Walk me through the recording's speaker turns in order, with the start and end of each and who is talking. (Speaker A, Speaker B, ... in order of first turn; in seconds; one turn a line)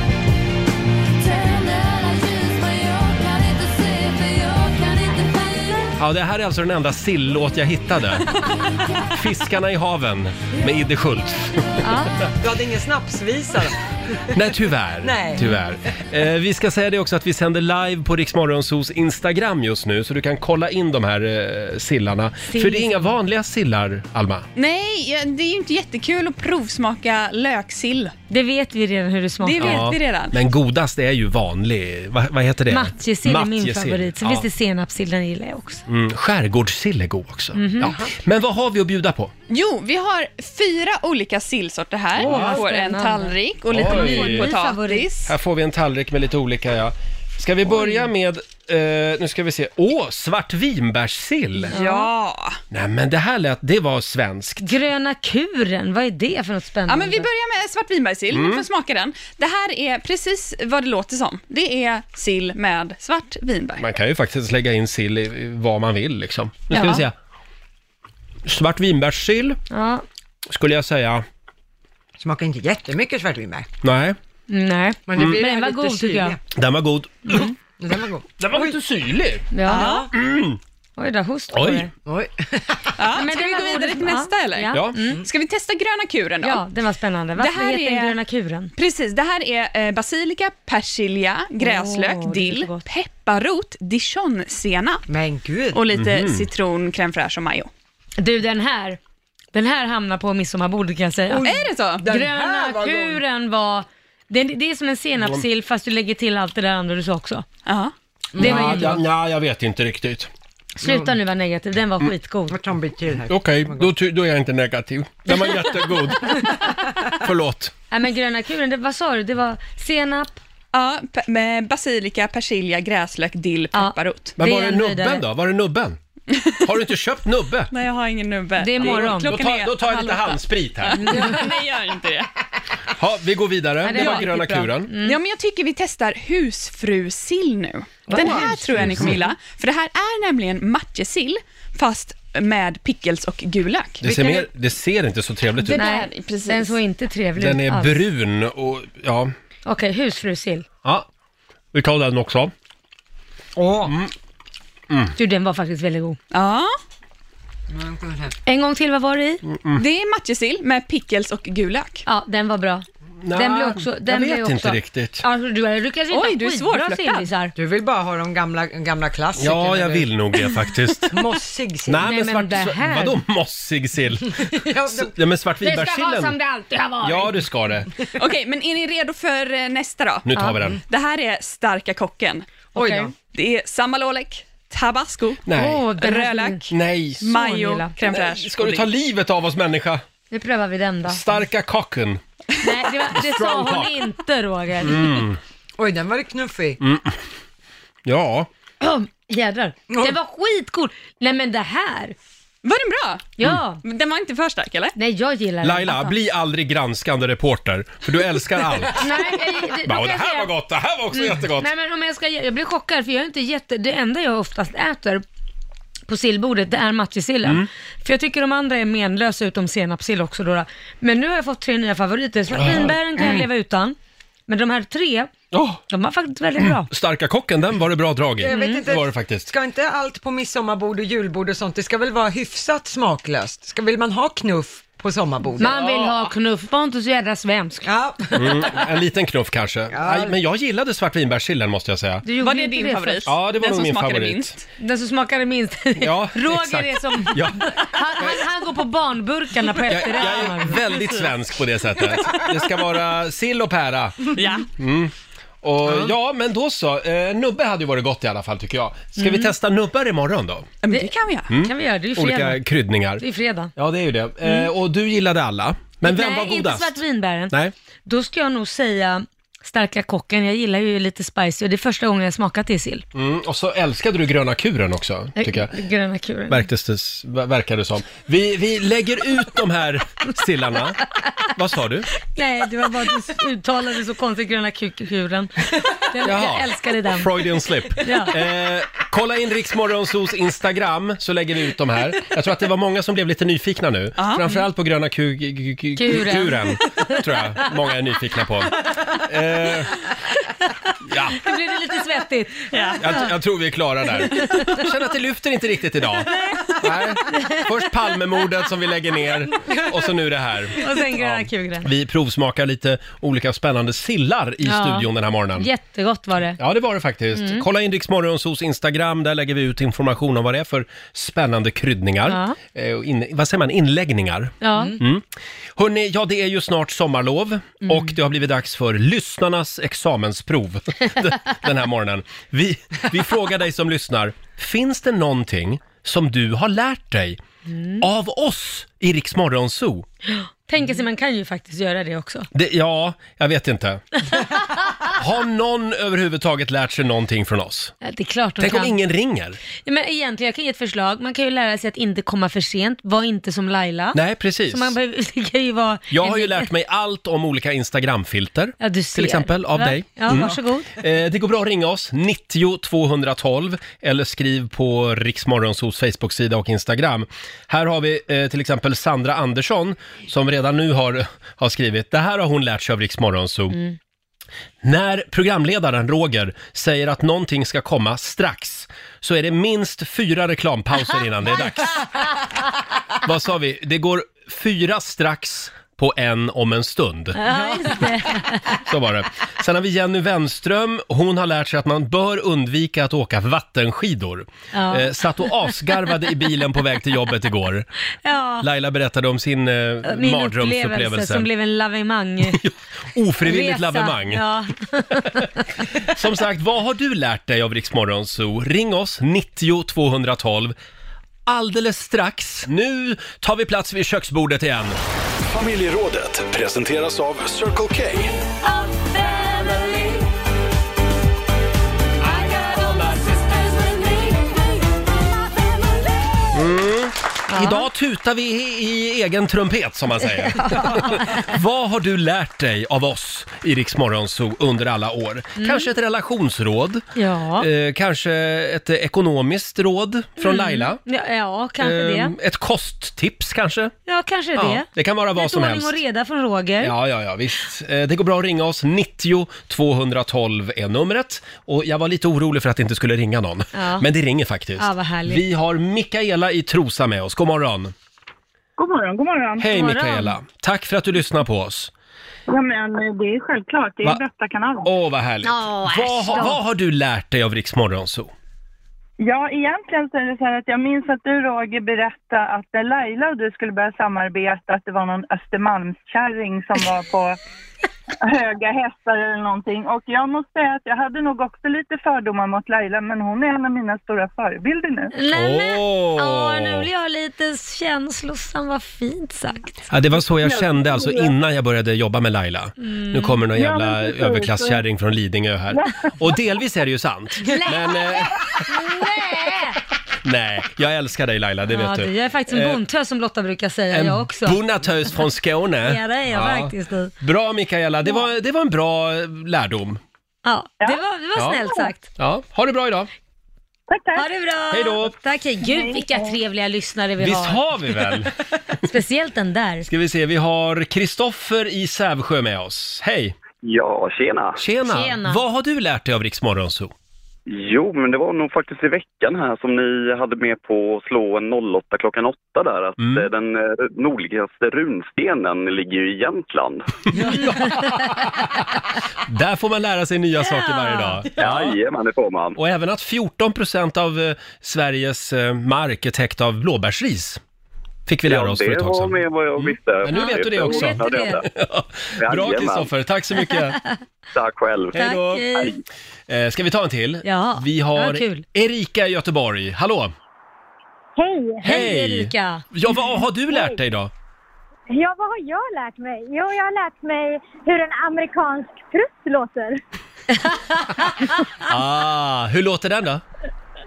Speaker A: 1.9-5.0
Speaker B: 6.0-8.3
Speaker B: 9.1-11.9
Speaker C: 11.8-12.2
Speaker D: 12.4-14.2
Speaker B: 14.3-24.4
Speaker D: 15.0-15.6
Speaker C: 22.5-23.1
Speaker E: 24.6-28.1
Speaker C: 28.3-29.9
Speaker E: 29.4-30.4
Speaker B: 29.6-34.5
Speaker C: 32.7-35.8
Speaker B: 35.9-39.3
Speaker C: 37.5-38.0
Speaker E: 39.5-45.3
Speaker B: 42.2-42.6
Speaker C: 42.2-45.1
Speaker B: 43.7-44.5
Speaker B: 45.3-51.7
Speaker C: 47.8-48.0
Speaker C: 51.7-52.1
Speaker E: 51.7-52.6
Speaker B: 52.7-54.7
Speaker C: 54.6-57.3
Speaker E: 56.9-63.9
Speaker B: 58.3-58.6
Speaker B: 63.8-67.1
Speaker C: 66.7-67.0
Speaker B: 68.5-69.6
Speaker C: 69.7-70.0
Speaker B: 70.5-71.2
Speaker D: 72.2-73.7
Speaker B: 73.8-74.2
Speaker C: 74.5-76.4
Speaker D: 75.1-76.4
Speaker B: 76.5-77.5
Speaker D: 77.8-78.7
Speaker B: 78.4-79.5
Speaker C: 79.5-80.0
Speaker E: 79.7-80.1
Speaker D: 79.7-80.1
Speaker B: 80.1-80.6
Speaker C: 81.0-81.9
Speaker B: 81.5-81.9
Speaker D: 82.1-82.9
Speaker E: 83.0-86.6
Speaker C: 83.1-85.2
Speaker C: 86.4-88.7
Speaker E: 87.4-88.2
Speaker E: 88.8-95.0
Speaker C: 91.6-92.8
Speaker D: 95.1-95.8
Speaker E: 95.7-97.7
Speaker B: 95.9-96.5
Speaker C: 98.2-99.0
Speaker C: 99.5-107.5
Speaker D: 101.3-103.2
Speaker E: 101.4-102.1
Speaker E: 107.7-107.9
Speaker D: 108.3-109.0
Speaker C: 108.4-109.0
Speaker B: 108.4-110.3
Speaker C: 110.8-112.6
Speaker D: 110.8-111.1
Speaker D: 112.5-113.9
Speaker B: 113.3-116.5
Speaker B: 117.2-117.7
Speaker C: 117.9-120.4
Speaker E: 120.7-124.4
Speaker C: 123.7-125.2
Speaker B: 124.4-126.0
Speaker E: 126.3-126.6
Speaker B: 126.7-127.7
Speaker E: 127.7-132.3
Speaker C: 128.6-129.4
Speaker B: 128.8-131.3
Speaker C: 131.0-131.4
Speaker B: 133.0-134.9
Speaker C: 133.8-135.2
Speaker E: 133.9-134.3
Speaker E: 135.0-144.4
Speaker D: 138.1-138.7
Speaker C: 138.1-139.2
Speaker B: 138.8-139.2
Speaker B: 144.0-145.8
Speaker E: 145.6-146.8
Speaker C: 145.7-148.0
Speaker B: 147.4-149.3
Speaker C: 149.7-150.7
Speaker B: 151.7-152.5
Speaker D: 153.6-153.9
Speaker B: 153.9-154.1
Speaker B: 154.9-155.2
Speaker C: 155.2-156.2
Speaker E: 156.3-156.7
Speaker D: 157.7-158.4
Speaker C: 158.5-159.4
Speaker B: 159.4-159.8
Speaker E: 159.8-162.0
Speaker C: 162.1-167.5
Speaker B: 163.2-165.2
Speaker E: 166.1-167.3
Speaker D: 167.6-170.1
Speaker B: 169.4-171.2
Speaker D: 171.1-172.0
Speaker B: 171.9-176.4
Speaker C: 172.1-173.2
Speaker D: 174.5-175.1
Speaker C: 175.6-177.4
Speaker B: 177.0-177.9
Speaker E: 178.2-185.4
Speaker B: 180.2-180.8
Speaker D: 182.8-183.1
Speaker C: 182.8-183.1
Speaker B: 185.5-185.8
Speaker C: 185.5-186.7
Speaker E: 186.0-186.7
Speaker B: 186.7-187.2
Speaker E: 187.2-188.9
Speaker C: 187.2-188.0
Speaker B: 188.1-190.0
Speaker C: 190.3-191.2
Speaker B: 191.1-192.2
Speaker C: 192.6-195.2
Speaker B: 193.1-194.0
Speaker B: 194.8-195.4
Speaker D: 195.8-196.8
Speaker B: 196.8-197.2
Speaker B: 198.1-198.5
Speaker C: 198.8-202.2
Speaker E: 202.6-204.9
Speaker C: 203.4-203.8
Speaker C: 205.0-206.1
Speaker B: 205.6-209.1
Speaker C: 208.9-210.5
Speaker B: 209.8-211.7
Speaker C: 211.1-215.2
Speaker C: 216.1-224.0
Speaker B: 222.6-223.4
Speaker C: 224.5-225.3
Speaker B: 225.5-225.8
Speaker C: 225.9-226.9
Speaker B: 226.7-229.5
Speaker D: 228.4-235.7
Speaker C: 228.5-228.8
Speaker C: 235.6-237.9
Speaker B: 235.7-236.2
Speaker D: 237.8-238.8
Speaker B: 238.3-242.2
Speaker D: 239.9-240.4
Speaker C: 242.2-243.3
Speaker E: 242.4-244.6
Speaker B: 243.3-244.6
Speaker C: 244.8-250.9
Speaker B: 246.0-248.4
Speaker B: 249.9-255.1
Speaker E: 254.3-254.7
Speaker B: 255.6-260.7
Speaker C: 259.2-259.5
Speaker E: 260.8-261.5
Speaker C: 260.9-262.6
Speaker B: 261.5-263.2
Speaker C: 263.2-263.7
Speaker B: 263.8-266.9
Speaker C: 264.4-264.7
Speaker C: 266.0-267.5
Speaker C: 268.1-273.1
Speaker B: 273.1-275.7
Speaker C: 275.4-276.6
Speaker B: 276.5-281.0
Speaker B: 281.6-282.1
Speaker C: 282.4-287.4
Speaker B: 286.2-299.9
Speaker C: 288.0-288.4
Speaker E: 294.2-294.6
Speaker C: 296.0-297.0
Speaker B: 301.1-301.4
Speaker C: 301.4-303.3
Speaker E: 302.7-303.0
Speaker B: 303.0-315.7
Speaker C: 304.3-304.8
Speaker C: 307.3-307.6
Speaker C: 310.8-311.9
Speaker C: 314.6-316.6
Speaker B: 316.6-325.2
Speaker C: 317.3-317.6
Speaker C: 322.3-322.6
Speaker C: 324.6-325.0
Speaker B: 325.8-337.4
Speaker C: 327.9-328.1
Speaker C: 337.7-338.0
Speaker B: 338.0-340.1
Speaker C: 340.3-342.5
Speaker B: 342.5-344.0
Speaker B: 345.2-347.9
Speaker C: 348.0-349.0
Speaker B: 348.6-349.6
Speaker C: 349.8-354.2
Speaker B: 354.1-354.9
Speaker C: 354.7-356.7
Speaker B: 356.1-373.8
Speaker C: 358.8-360.9
Speaker B: 374.8-382.1
Speaker B: 383.2-387.4
Speaker C: 387.4-388.8
Speaker D: 387.5-388.0
Speaker B: 388.9-397.9
Speaker C: 394.7-395.5
Speaker C: 398.2-398.6
Speaker B: 398.6-401.5
Speaker C: 400.1-402.6
Speaker B: 402.5-404.4
Speaker C: 403.4-405.5
Speaker B: 406.0-410.8
Speaker B: 411.5-415.0
Speaker F: 415.5-418.4
Speaker C: 418.6-420.2
Speaker B: 422.3-423.4
Speaker C: 422.6-423.2
Speaker B: 426.5-437.1
Speaker C: 427.5-427.9
Speaker C: 430.5-431.4
Speaker C: 435.6-435.9
Speaker C: 437.2-437.7
Speaker B: 437.6-441.0
Speaker C: 440.4-442.3
Speaker B: 441.8-443.9
Speaker C: 444.1-446.9
Speaker B: 444.6-446.0
Speaker B: 446.8-457.9
Speaker C: 453.7-454.1
Speaker C: 454.8-455.4
Speaker G: 458.8-459.7
Speaker B: 459.6-461.9
Speaker C: 459.7-460.4
Speaker G: 462.5-464.9
Speaker B: 464.8-468.3
Speaker C: 465.4-466.6
Speaker G: 469.2-477.4
Speaker G: 478.2-485.1
Speaker C: 485.1-489.8
Speaker B: 485.3-486.9
Speaker B: 489.9-498.6
Speaker G: 490.4-491.3
Speaker C: 492.8-493.4
Speaker G: 493.6-494.8
Speaker C: 497.5-499.8
Speaker B: 500.2-502.8
Speaker C: 501.7-504.6
Speaker B: 503.9-510.0
Speaker C: 505.9-507.1
Speaker C: 510.4-512.0
Speaker B: 511.4-511.7
Speaker B: 512.2-513.1
Speaker G: 513.9-514.3
Speaker C: 514.1-518.0
Speaker B: 514.7-515.1
Speaker G: 515.6-516.4
Speaker B: 517.2-518.3
Speaker C: 518.8-519.9
Speaker B: 519.9-523.4
Speaker H: 523.6-524.6
Speaker B: 524.6-526.9
Speaker C: 524.9-525.4
Speaker H: 527.5-536.9
Speaker B: 533.0-533.3
Speaker B: 537.2-538.6
Speaker B: 539.3-541.8
Speaker C: 540.5-541.2
Speaker H: 541.4-542.6
Speaker B: 542.5-547.4
Speaker B: 548.1-553.8
Speaker H: 548.3-551.5
Speaker C: 550.1-551.4
Speaker H: 552.2-552.9
Speaker H: 554.3-555.0
Speaker B: 555.0-555.5
Speaker C: 555.0-555.7
Speaker B: 556.3-560.1
Speaker C: 557.2-558.4
Speaker A: 561.2-561.6
Speaker B: 561.6-564.1
Speaker C: 561.6-562.6
Speaker A: 563.5-563.8
Speaker A: 564.9-569.8
Speaker B: 571.7-573.2